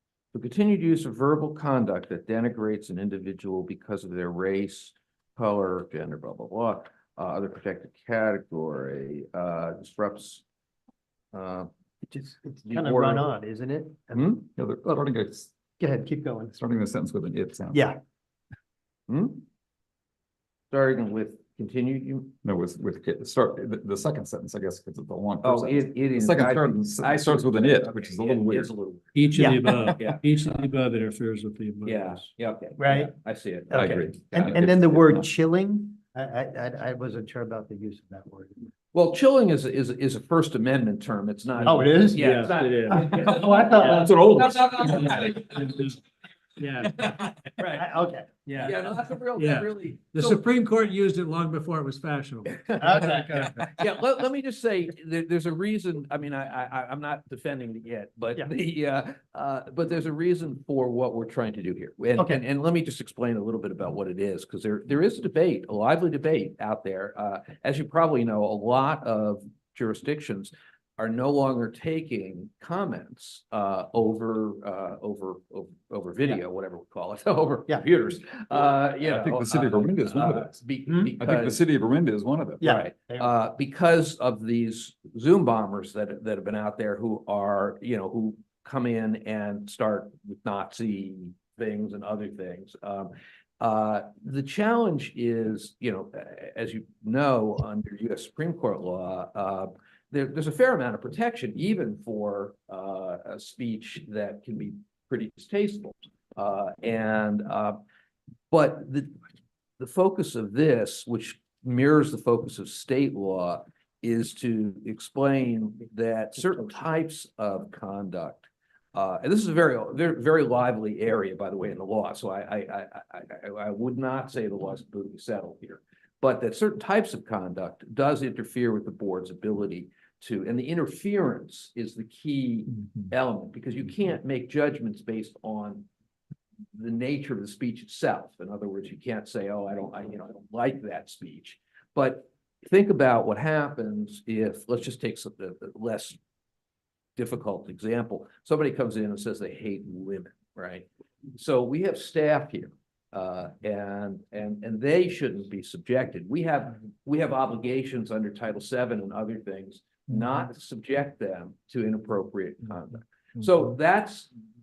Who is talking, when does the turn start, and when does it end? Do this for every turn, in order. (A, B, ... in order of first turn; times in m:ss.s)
0:00.3-0:10.4 A
0:11.3-0:11.7 A
0:12.1-0:14.4 B
0:12.6-0:13.3 A
0:14.1-0:14.5 A
0:14.6-0:15.5 C
0:15.8-0:16.6 B
0:16.5-0:17.9 C
0:17.7-0:18.0 B
0:19.1-0:19.4 A
0:20.7-0:22.3 A
0:22.4-0:28.7 C
0:25.4-0:29.2 A
0:29.1-0:32.3 D
0:29.3-0:29.6 B
0:29.6-0:30.0 C
0:29.9-0:30.4 A
0:31.8-0:34.6 A
0:32.8-0:33.1 B
0:33.7-0:38.7 B
0:33.7-0:35.3 C
0:38.9-0:45.8 A
0:41.6-0:43.4 D
0:41.6-0:42.3 B
0:42.9-0:44.2 B
0:44.0-0:45.1 C
0:45.1-0:46.0 D
0:46.6-0:47.1 D
0:46.8-0:47.8 A
0:47.7-0:48.7 B
0:48.5-0:53.8 D
0:48.6-0:50.4 A
0:52.8-0:53.5 B
0:53.6-1:21.6 A
1:02.2-1:02.4 B
1:19.0-1:20.6 C
1:20.9-1:21.1 B
1:21.2-1:22.6 C
1:22.6-1:23.4 B
1:22.6-1:47.8 A
1:48.5-1:49.2 A
1:49.8-2:15.9 A
2:16.7-2:26.2 A
2:27.2-2:44.3 A